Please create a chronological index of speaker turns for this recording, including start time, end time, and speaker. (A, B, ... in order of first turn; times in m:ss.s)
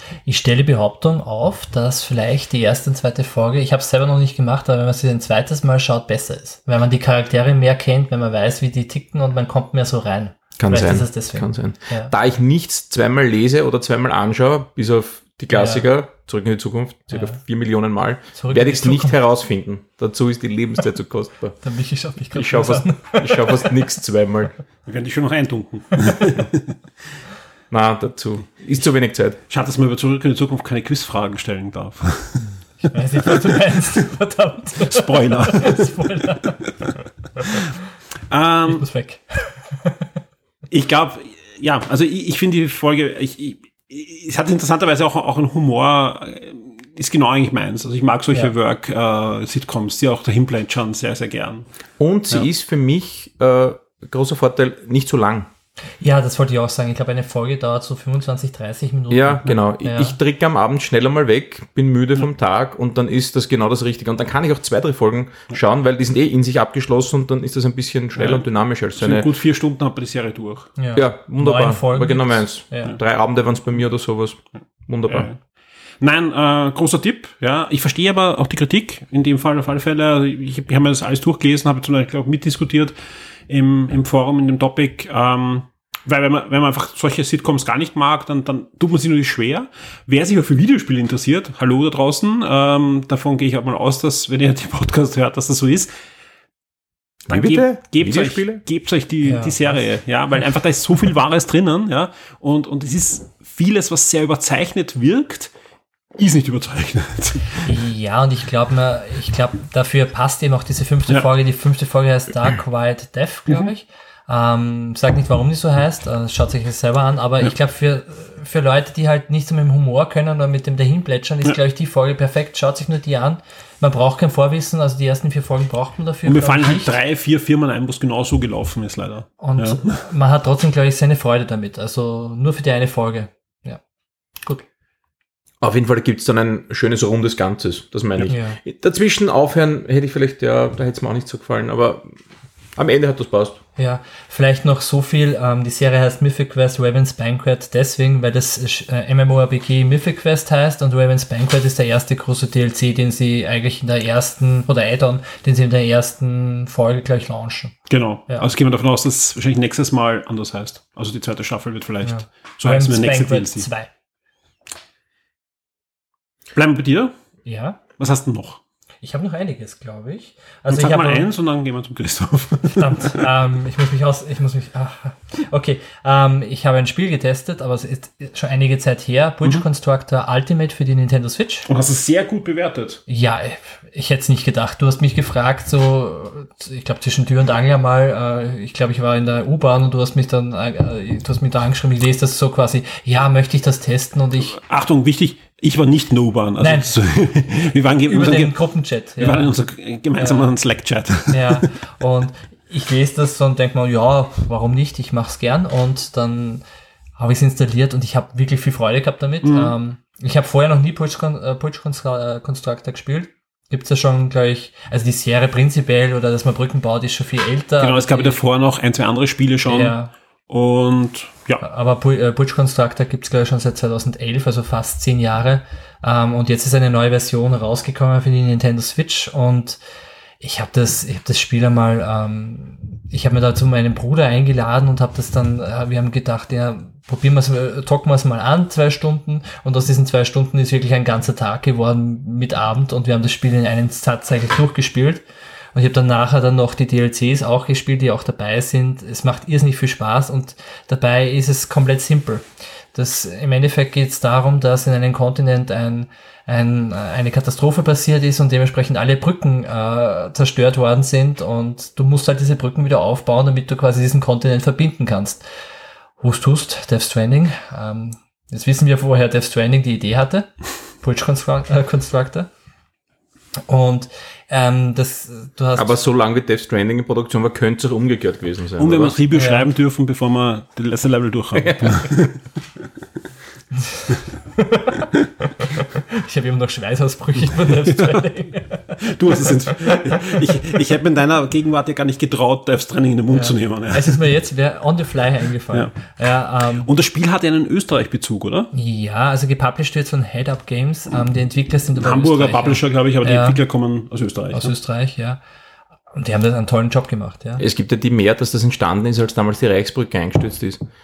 0:00.3-0:12.1 A
0:10.6-0:21.6 B
0:15.5-0:15.9 A
0:17.1-0:17.4 A
0:18.4-0:19.2 A
0:21.6-0:23.7 A
0:22.3-0:24.5 B
0:24.9-0:26.8 C
0:27.7-0:29.4 B
0:29.5-0:32.5 C
0:32.8-0:36.6 A
0:33.3-0:33.9 C
0:34.8-0:36.0 C
0:38.3-0:38.9 C
0:38.7-0:40.0 A
0:40.7-0:51.6 C
0:52.0-0:55.5 B
0:56.0-1:00.2 A
0:59.1-1:09.3 B
1:09.0-1:10.7 C
1:10.8-1:13.0 A
1:10.9-1:15.3 B
1:15.1-1:15.4 C
1:16.0-1:22.9 C
1:23.5-1:35.9 C
1:37.3-1:38.6 B
1:37.3-1:45.5 C
1:39.2-1:39.8 A
1:46.2-1:47.7 C
1:47.6-2:07.0 A
2:06.2-2:10.1 C
2:09.4-2:13.8 A
2:15.6-2:22.2 B
2:18.3-2:18.6 A
2:22.8-2:23.6 B
2:23.8-2:37.7 A
2:37.9-2:43.7 C
2:42.0-2:43.9 A
2:46.6-2:47.1 C
2:47.5-2:47.8 A
2:48.0-2:48.6 C
2:49.0-2:51.3 A
2:50.7-2:53.2 C
2:52.8-3:01.7 A
3:01.7-3:03.0 C
3:03.1-3:14.6 A
3:14.5-3:18.6 C
3:16.6-3:17.0 A
3:18.1-3:19.5 A
3:19.2-3:21.6 C
3:20.2-3:20.5 A
3:21.3-3:26.6 A
3:27.2-3:38.4 A
3:29.4-3:29.8 C
3:37.8-3:40.0 C
3:39.7-3:40.1 A
3:40.5-3:41.6 C
3:41.6-3:49.8 A
3:50.4-4:05.2 A
4:05.7-4:25.4 A
4:26.2-4:32.5 A
4:33.7-4:36.0 A
4:35.8-4:39.2 B
4:38.8-4:42.4 C
4:39.3-4:39.7 A
4:41.6-4:42.1 B
4:44.6-4:45.0 A
4:45.8-4:50.5 A
4:47.9-4:48.2 C
4:49.0-4:54.3 C
4:53.3-4:56.9 A
4:56.8-4:58.7 C
4:58.7-5:03.6 A
5:02.0-5:04.7 C
5:04.5-5:05.4 A
5:06.1-5:07.6 A
5:07.6-5:10.8 B